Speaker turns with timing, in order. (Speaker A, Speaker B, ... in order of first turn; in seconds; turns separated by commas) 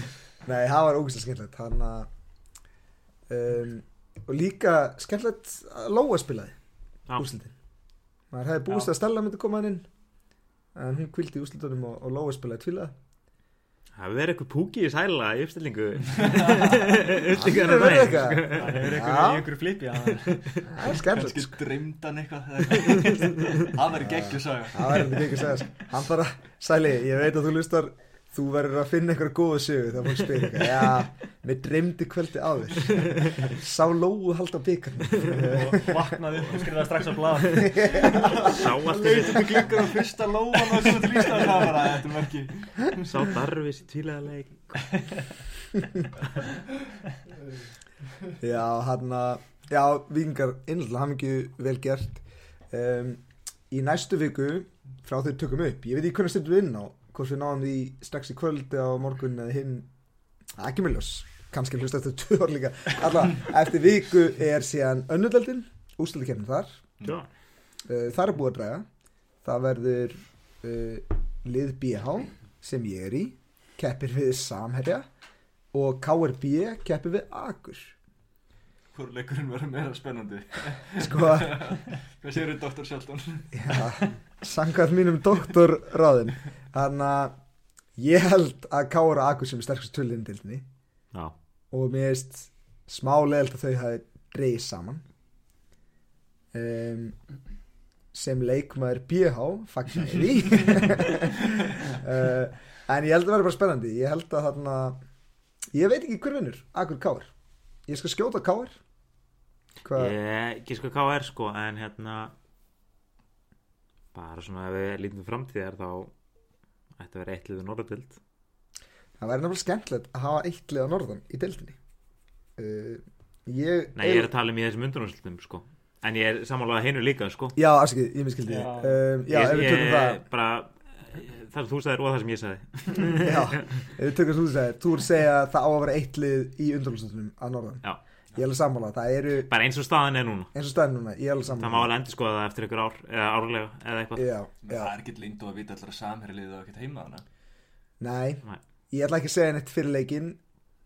Speaker A: 0.4-2.1, Speaker A: 3.3-6.5, Speaker A: 7.1-7.5, Speaker A: 8.3-9.8, Speaker A: 10.7-12.9, Speaker B: 14.0-18.9, Speaker C: 16.2-16.9, Speaker A: 17.3-19.5, Speaker D: 18.5-20.6, Speaker A: 20.6-21.6, Speaker C: 20.8-25.5, Speaker B: 22.9-23.2, Speaker A: 23.9-36.0, Speaker D: 35.2-38.0, Speaker A: 37.5-39.4, Speaker C: 38.2-43.3, Speaker B: 38.2-39.6, Speaker B: 42.9-45.1, Speaker A: 48.4-59.9, Speaker A: 60.6-66.8, Speaker B: 67.0-67.3, Speaker A: 67.9-68.8, Speaker A: 69.4-75.0, Speaker A: 75.7-77.9, Speaker C: 78.9-83.9, Speaker A: 81.0-81.7, Speaker A: 83.5-87.3, Speaker A: 88.0-90.6, Speaker A: 91.7-95.0, Speaker A: 96.5-97.2, Speaker A: 98.1-105.0, Speaker A: 105.7-107.3, Speaker A: 107.9-108.8, Speaker A: 109.8-110.1, Speaker B: 109.9-112.3, Speaker B: 114.1-116.1, Speaker B: 117.0-118.2, Speaker A: 119.2-121.8, Speaker A: 122.6-124.3, Speaker B: 124.0-127.6, Speaker A: 127.5-130.2, Speaker D: 128.5-129.0, Speaker B: 129.3-133.8, Speaker A: 133.0-139.5, Speaker B: 139.5-140.5, Speaker A: 140.5-141.9, Speaker B: 141.5-144.3, Speaker A: 144.2-144.9, Speaker C: 144.6-147.2, Speaker A: 148.0-150.4